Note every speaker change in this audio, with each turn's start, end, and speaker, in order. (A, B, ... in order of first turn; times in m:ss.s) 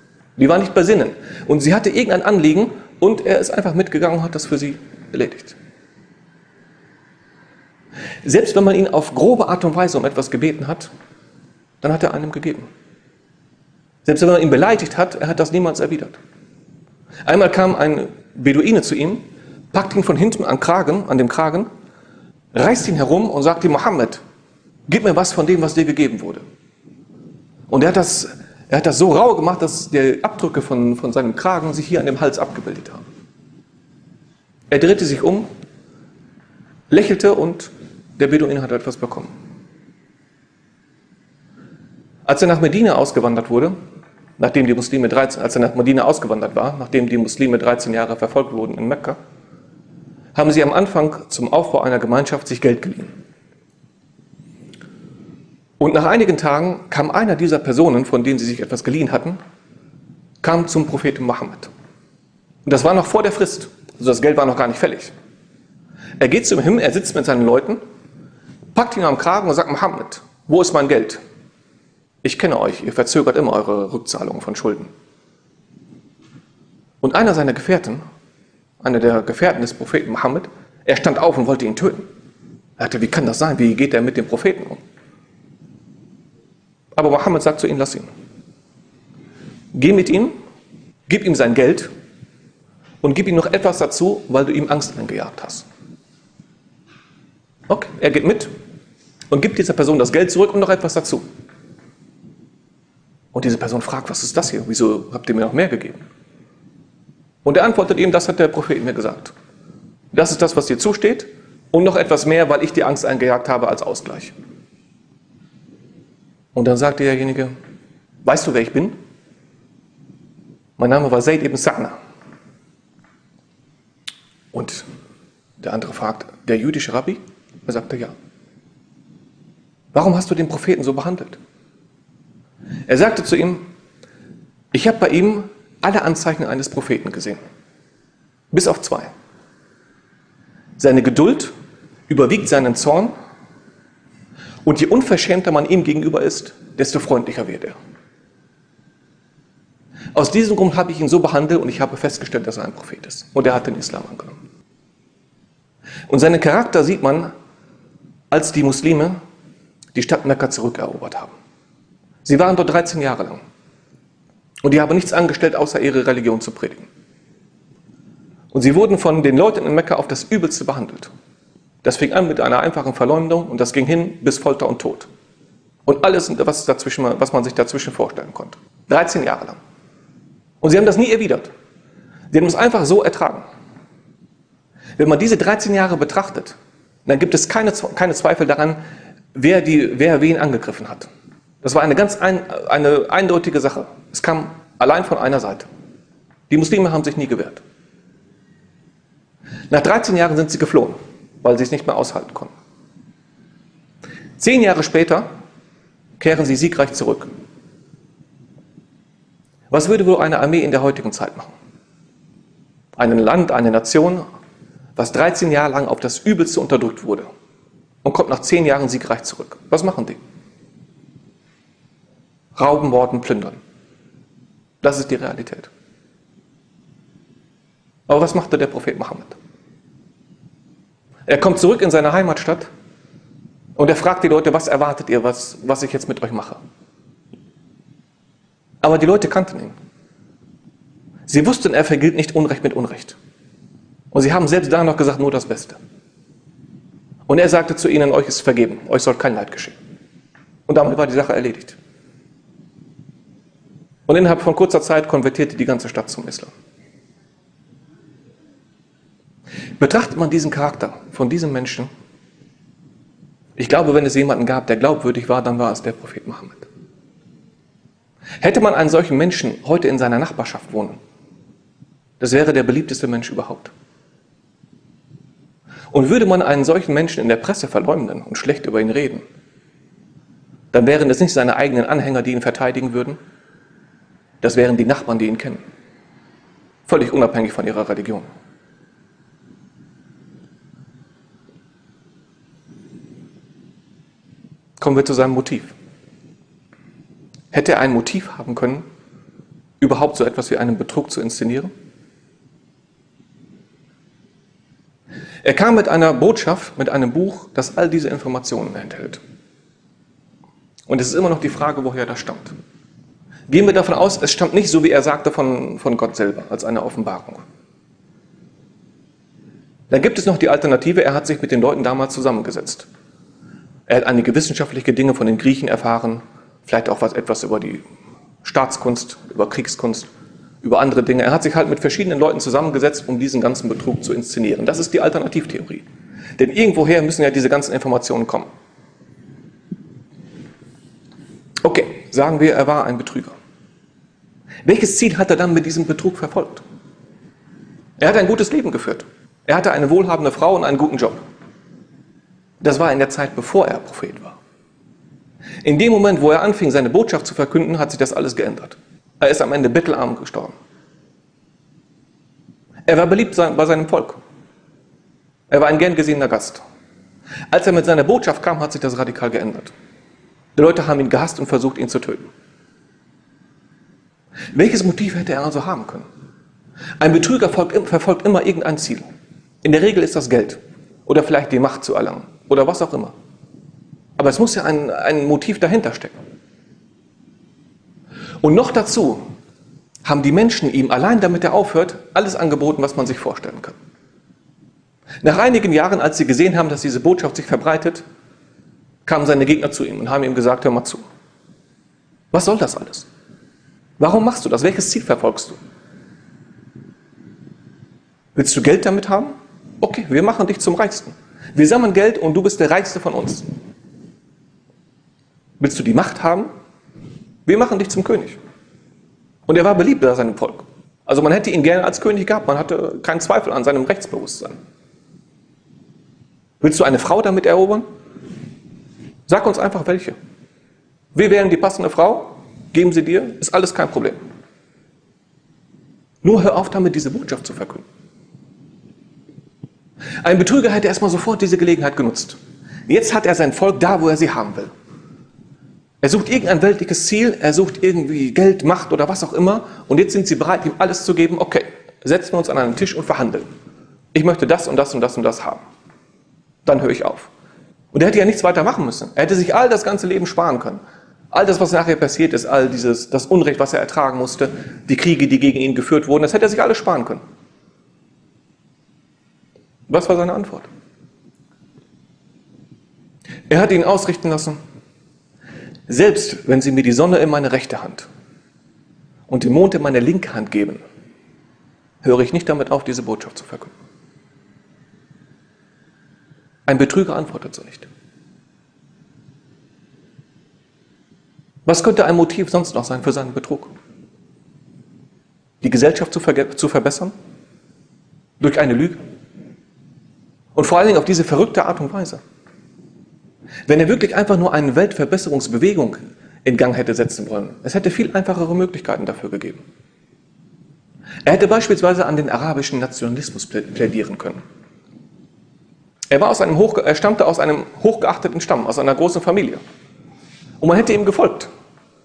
0:00.4-0:05.6 A
0:08.2-0:10.9 A
0:11.8-0:12.7 A
0:14.0-0:16.2 A
0:17.3-0:21.7 A
0:22.5-0:24.2 A
0:24.9-0:26.4 A
0:27.7-0:33.0 A
0:34.7-0:35.5 A
0:36.9-0:39.3 A
0:42.3-0:43.8 A
0:44.4-0:49.2 A
0:50.4-0:53.2 A
0:55.8-0:59.4 A
1:00.4-1:01.7 A
1:02.7-1:05.1 A
1:06.2-1:07.8 A
1:08.7-1:11.2 A
1:12.2-1:14.9 A
1:17.0-1:18.0 A
1:18.8-1:22.1 A
1:22.8-1:24.8 A
1:27.0-1:28.1 A
1:29.7-1:30.4 A
1:31.1-1:31.9 A
1:33.0-1:35.7 A
1:37.7-1:38.5 A
1:39.3-1:41.3 A
1:43.3-1:46.0 A
1:47.4-1:49.3 A
1:50.1-1:54.3 A
1:56.6-1:57.6 A
1:58.2-1:59.0 A
2:00.8-2:02.0 A
2:04.5-2:04.9 A
2:05.6-2:08.2 A
2:09.9-2:11.4 A
2:12.9-2:13.7 A
2:14.7-2:17.4 A
2:18.5-2:19.1 A
2:20.8-2:21.5 A
2:22.1-2:23.1 A
2:24.6-2:27.8 A
2:30.2-2:34.4 A
2:36.1-2:37.3 A
2:38.3-2:39.2 A
2:40.0-2:41.3 A
2:42.2-2:43.4 A
2:44.6-2:46.9 A
2:48.5-2:51.1 A
2:51.8-2:55.1 A
2:55.9-2:59.6 A
3:00.6-3:01.5 A
3:02.3-3:03.4 A
3:05.0-3:08.8 A
3:09.3-3:11.1 A
3:11.6-3:15.7 A
3:16.5-3:17.6 A
3:19.7-3:22.5 A
3:24.4-3:25.3 A
3:26.2-3:27.4 A
3:29.7-3:31.5 A
3:33.0-3:34.2 A
3:35.0-3:37.3 A
3:38.0-3:40.2 A
3:42.6-3:43.6 A
3:44.8-3:45.7 A
3:48.1-3:49.4 A
3:51.3-3:52.7 A
3:53.8-3:56.6 A
3:58.8-3:59.8 A
4:01.3-4:03.2 A
4:04.1-4:05.8 A
4:07.3-4:09.8 A
4:10.7-4:11.8 A
4:14.1-4:16.5 A
4:19.8-4:21.9 A
4:23.6-4:26.7 A
4:28.4-4:31.0 A
4:32.2-4:33.7 A
4:35.9-4:39.2 A
4:40.7-4:43.2 A
4:44.4-4:45.6 A
4:46.9-4:48.3 A
4:54.8-4:55.8 A
4:57.5-4:58.8 A
4:59.8-5:01.7 A
5:05.4-5:09.2 A
5:10.9-5:12.6 A
5:13.5-5:17.4 A
5:19.9-5:22.9 A
5:23.9-5:27.8 A
5:28.4-5:30.1 A
5:30.6-5:35.8 A
5:36.4-5:38.5 A
5:41.6-5:43.4 A
5:44.6-5:46.6 A
5:48.0-5:51.2 A
5:52.6-5:54.4 A
5:55.6-6:00.6 A
6:02.9-6:04.2 A
6:05.5-6:06.6 A
6:07.5-6:09.7 A
6:10.6-6:12.3 A
6:14.5-6:16.1 A
6:17.0-6:19.1 A
6:19.6-6:23.2 A
6:24.2-6:26.2 A
6:28.4-6:29.3 A
6:30.0-6:33.8 A
6:35.2-6:38.0 A
6:39.1-6:41.0 A
6:42.3-6:43.1 A
6:44.0-6:45.6 A
6:48.4-6:53.5 A
6:55.6-6:56.5 A
6:57.5-6:58.4 A
6:59.5-7:04.6 A
7:06.6-7:07.9 A
7:09.3-7:10.2 A
7:11.2-7:14.2 A
7:16.2-7:17.8 A
7:20.2-7:24.7 A
7:26.0-7:33.5 A
7:34.1-7:35.6 A
7:36.6-7:37.3 A
7:37.9-7:40.8 A
7:41.3-7:47.2 A
7:49.9-7:50.7 A
7:53.5-7:54.6 A
7:55.9-7:58.1 A
7:59.3-8:00.8 A
8:02.0-8:03.8 A
8:06.7-8:07.9 A
8:11.7-8:13.7 A
8:15.6-8:17.1 A
8:18.4-8:19.0 A
8:20.6-8:22.2 A
8:23.7-8:29.6 A
8:31.3-8:34.4 A
8:36.1-8:39.6 A
8:40.6-8:41.5 A